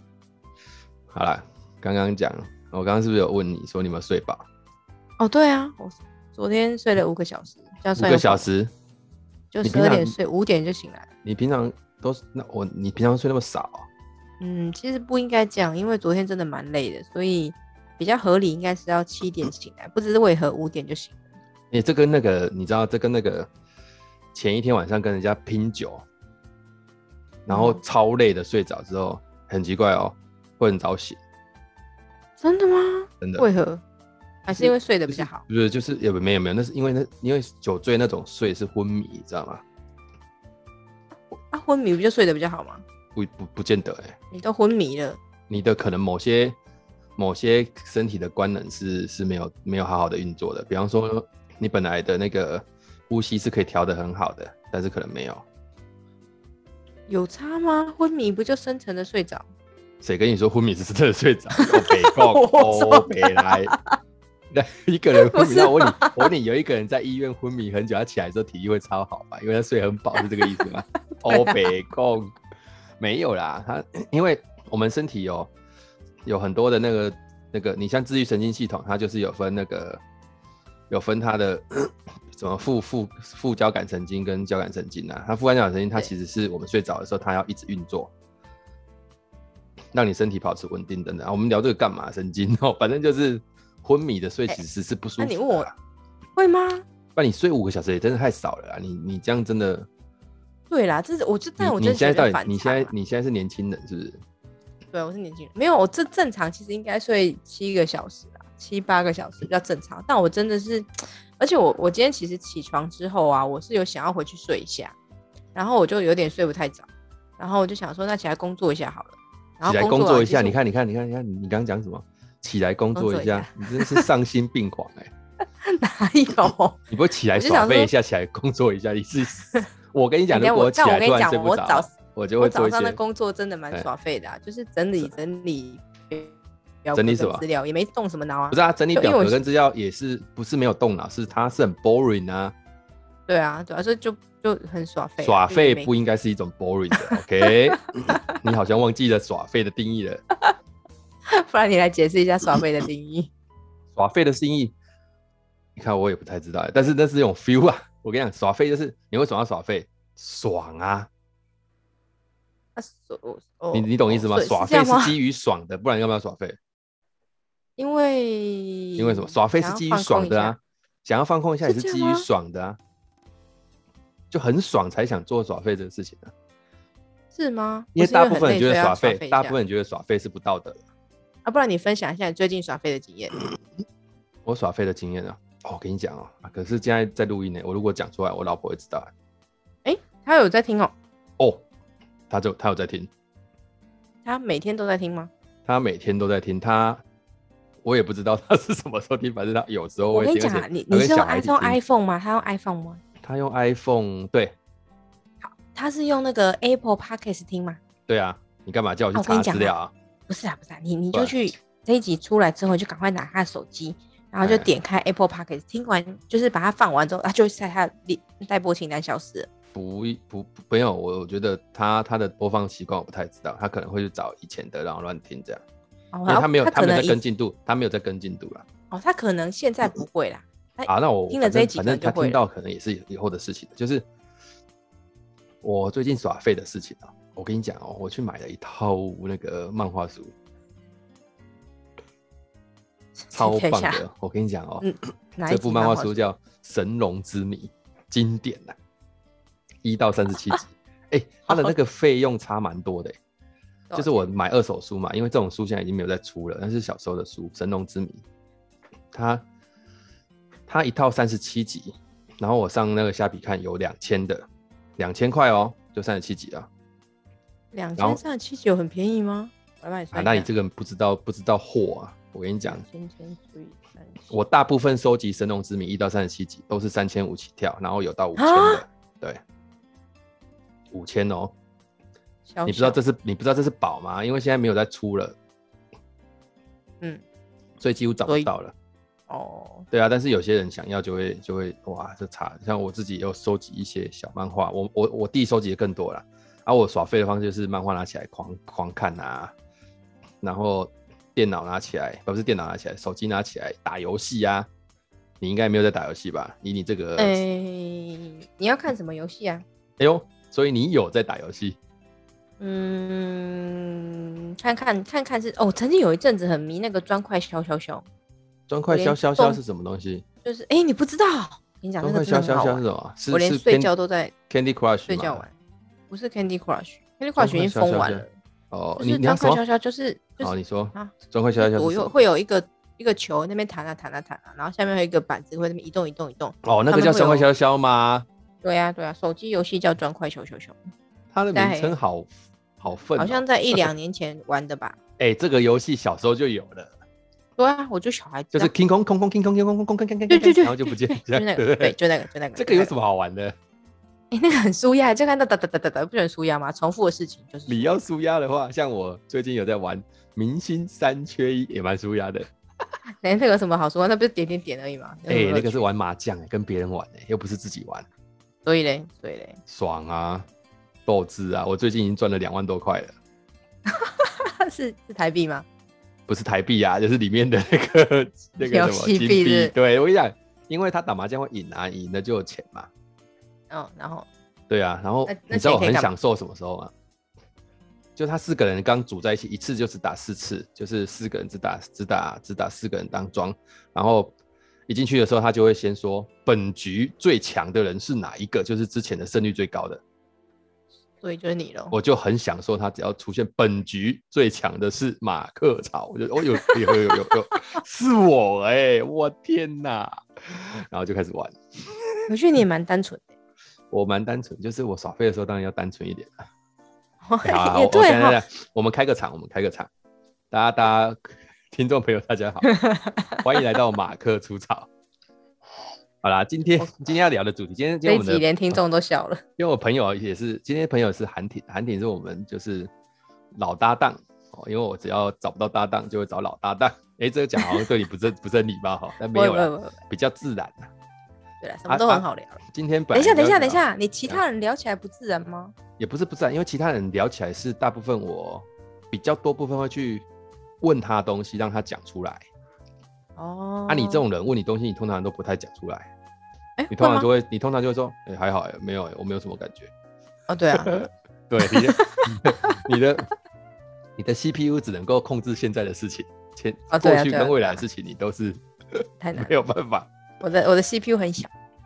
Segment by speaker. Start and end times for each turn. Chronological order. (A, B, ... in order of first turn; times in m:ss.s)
0:01.1-0:04.4 A
0:05.2-0:08.5 B
0:08.0-0:08.7 A
0:09.5-0:11.1 B
0:09.6-0:10.2 A
0:11.2-0:13.9 A
0:14.4-0:21.2 B
0:21.7-0:23.5 A
0:24.3-0:26.0 A
0:27.5-0:27.8 B
0:27.5-0:31.2 A
0:32.4-0:33.8 B
0:33.2-0:33.5 A
0:34.4-0:35.4 B
0:34.6-0:39.6 A
0:41.5-0:42.8 B
0:43.2-0:44.2 A
0:44.3-0:45.2 B
0:45.5-0:46.6 A
0:47.2-0:55.4 A
0:57.1-0:59.4 B
1:00.0-1:03.7 A
1:01.5-1:04.0 B
1:04.5-1:12.3 A
1:05.1-1:06.3 B
1:10.2-1:10.7 B
1:11.3-1:11.6 B
1:13.0-1:15.5 A
1:16.2-1:20.0 A
1:20.9-1:28.1 A
1:29.9-1:35.7 A
1:35.2-1:35.7 B
1:36.4-1:36.8 B
1:37.2-1:39.9 A
1:40.7-1:42.9 B
1:41.6-1:44.2 A
1:44.9-1:54.9 B
1:55.5-1:56.9 B
1:57.4-2:00.6 B
1:59.6-2:05.1 A
2:02.9-2:04.1 B
2:05.6-2:06.8 B
2:06.9-2:13.0 A
2:07.3-2:07.9 B
2:10.3-2:19.4 B
2:16.9-2:17.4 A
2:18.5-2:22.5 A
2:23.3-2:25.9 B
2:25.2-2:30.2 A
2:27.0-2:28.2 B
2:31.3-2:33.3 B
2:33.9-2:34.7 A
2:35.8-2:41.1 A
2:42.8-2:45.2 B
2:43.7-2:46.6 A
2:47.8-2:50.6 B
2:49.0-2:52.8 A
2:51.6-2:52.3 B
2:54.3-2:56.3 A
2:57.3-2:59.5 B
2:58.0-3:00.8 A
3:01.4-3:03.4 B
3:04.4-3:09.1 A
3:09.8-3:10.9 B
3:12.3-3:13.1 A
3:14.2-3:15.3 B
3:15.6-3:17.0 A
3:17.8-3:21.8 A
3:20.1-3:23.0 B
3:23.2-3:24.6 A
3:25.4-3:27.8 B
3:28.1-3:29.9 A
3:29.1-3:29.7 B
3:30.3-3:39.5 B
3:31.1-3:31.4 A
3:34.4-3:34.7 A
3:39.7-3:45.6 A
3:46.1-3:47.2 B
3:46.3-3:48.6 A
3:48.9-3:52.4 B
3:50.9-3:54.0 A
3:55.6-4:00.3 A
4:03.2-4:04.0 B
4:03.3-4:04.9 A
4:04.8-4:06.2 B
4:05.5-4:08.7 A
4:09.8-4:13.2 A
4:11.5-4:11.7 B
4:13.9-4:14.2 B
4:13.9-4:18.2 A
4:19.1-4:19.4 A
4:20.7-4:24.4 A
4:25.0-4:26.7 A
4:27.7-4:30.5 B
4:30.1-4:32.8 A
4:32.6-4:34.2 B
4:34.3-4:39.4 A
4:38.4-4:38.8 B
4:40.9-4:41.5 A
4:42.5-4:43.0 B
4:42.6-4:45.3 A
4:47.8-4:48.7 A
4:49.3-4:49.9 B
4:49.9-4:59.5 A
5:00.4-5:04.7 A
5:05.4-5:07.4 A
5:07.2-5:09.6 B
5:10.0-5:11.8 A
5:12.6-5:18.0 B
5:18.7-5:20.2 A
5:18.9-5:19.6 B
5:20.4-5:24.3 B
5:22.0-5:23.9 A
5:24.5-5:25.4 A
5:25.1-5:25.5 B
5:26.1-5:28.3 B
5:27.4-5:29.6 A
5:29.0-5:37.4 B
5:30.4-5:32.1 A
5:36.6-5:38.3 A
5:38.6-5:40.8 B
5:41.3-5:42.3 A
5:41.5-5:41.9 B
5:42.8-5:43.9 A
5:43.2-5:45.0 B
5:45.2-5:46.9 A
5:47.6-5:48.7 B
5:48.5-5:52.0 A
5:50.3-5:52.9 B
5:52.5-5:53.6 A
5:54.3-5:58.0 B
5:57.7-6:02.5 A
6:03.2-6:05.8 B
6:05.3-6:08.0 A
6:08.6-6:09.6 B
6:09.7-6:10.4 A
6:11.1-6:13.1 A
6:13.9-6:15.6 B
6:16.3-6:22.9 A
6:18.6-6:19.7 B
6:23.7-6:24.3 B
6:24.7-6:26.9 A
6:25.3-6:26.1 B
6:28.2-6:34.3 A
6:34.9-6:40.0 A
6:41.2-6:41.9 B
6:41.9-6:52.2 A
6:46.8-6:47.1 B
6:52.3-6:53.3 B
6:53.9-6:56.3 A
6:57.2-6:58.4 B
6:57.4-6:59.9 A
7:00.5-7:02.7 A
7:02.7-7:03.4 B
7:03.4-7:04.9 A
7:06.2-7:08.8 A
7:08.0-7:09.4 B
7:09.6-7:12.9 A
7:13.5-7:20.9 A
7:19.3-7:20.0 B
7:21.6-7:22.6 B
7:21.9-7:24.4 A
7:23.1-7:25.7 B
7:26.0-7:30.2 A
7:30.8-7:32.4 A
7:33.4-7:34.2 B
7:33.9-7:36.1 A
7:36.8-7:37.3 B
7:36.9-7:39.9 A
7:40.5-7:41.0 B
7:40.7-7:43.3 A
7:41.6-7:42.7 B
7:44.2-7:50.1 A
7:46.9-7:47.8 B
7:49.2-7:49.5 B
7:50.4-7:51.5 B